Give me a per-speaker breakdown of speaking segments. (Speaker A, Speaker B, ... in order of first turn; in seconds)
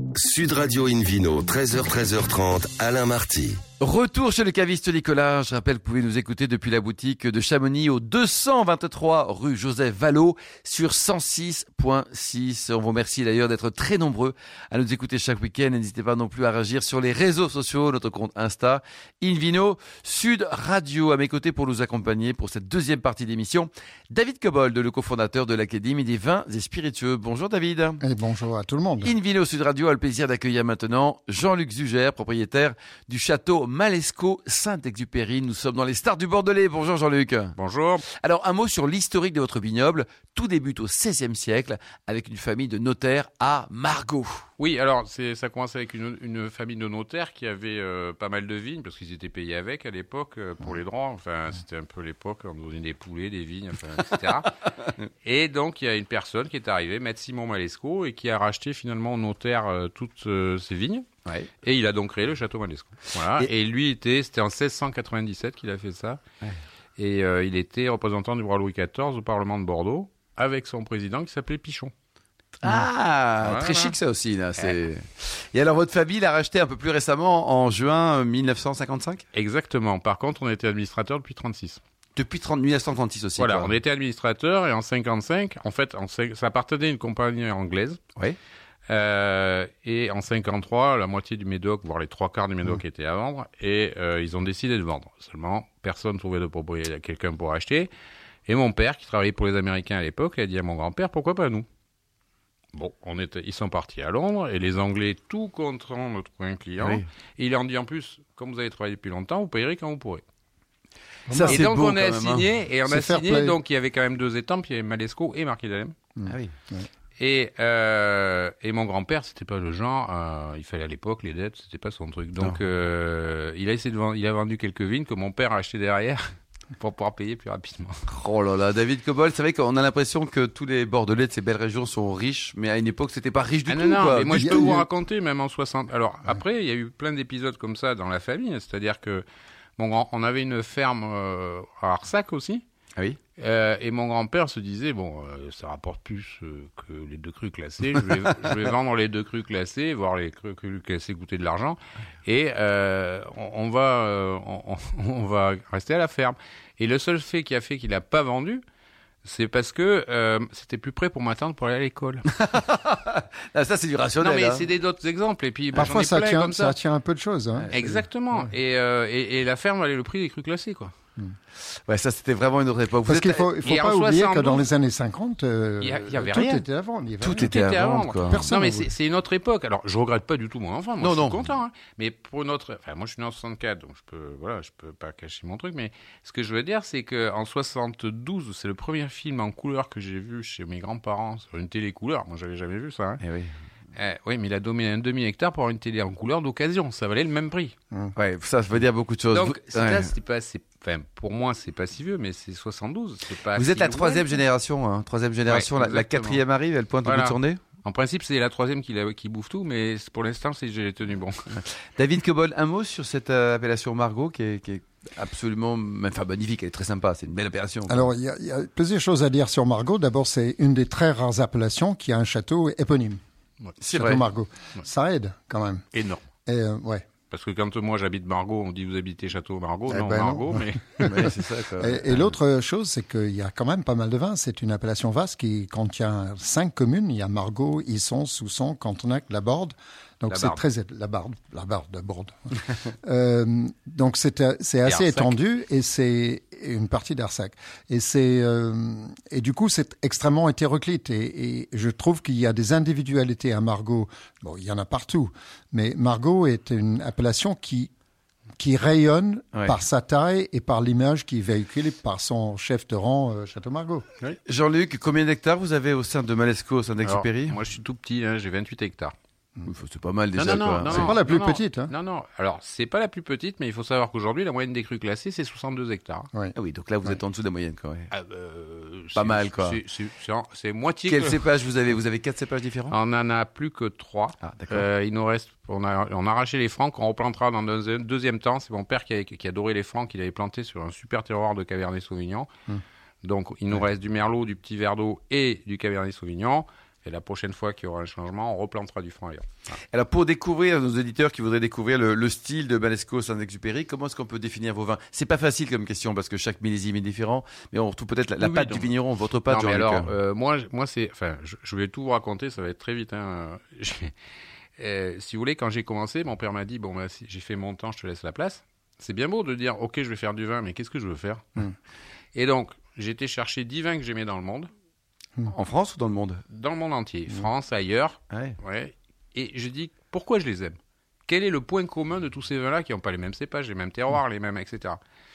Speaker A: 0.1-3.6
Speaker B: 3.8-28.0, 29.0-37.5, 38.1-44.4, 72.6-79.2, 82.2-83.8, 111.3-112.5, 116.3-116.5, 128.1-134.8, 162.3-164.7, 171.9-173.5, 177.2-178.4, 181.0-181.5, 193.2-193.5, 198.2-200.1, 203.5-207.6, 211.9-218.1, 223.8-224.2, 231.0-232.3, 264.5-267.6, 269.6-271.1, 276.5-278.1, 279.1-279.8, 281.1-282.9, 284.4-284.9, 299.9-310.1, 325.5-326.4, 328.3-328.6
Speaker C: 28.0-29.1, 111.3-111.6, 112.8-113.6, 116.2-116.9, 134.3-134.9, 165.7-168.0, 173.0-178.9, 217.8-223.2, 223.9-225.8, 226.4-227.1, 229.9-257.9, 258.6-264.1, 270.8-271.9
Speaker D: 37.6-38.0, 44.6-54.5, 55.2-61.1, 61.6-66.2, 67.0-71.9, 73.5-73.9, 79.3-81.8, 83.4-88.0, 88.9-97.9, 98.5-101.6, 102.7-110.2, 111.4-116.0, 117.2-126.2, 126.8-128.0, 133.7-139.2, 139.8-142.6, 143.4-158.6, 159.2-162.2, 164.2-166.8, 167.7-170.9, 173.6-174.7, 175.8-176.6, 177.3-193.2, 193.9-197.7, 199.3-204.4, 205.5-206.4, 207.0-211.6, 225.9-226.2, 227.3-231.0, 240.3-240.6, 244.8-245.3, 267.0-269.1, 270.3-276.3, 278.1-281.4, 282.9-292.5, 293.2-299.7, 308.4-314.1, 314.8-321.6, 322.3-324.7, 326.5-335.0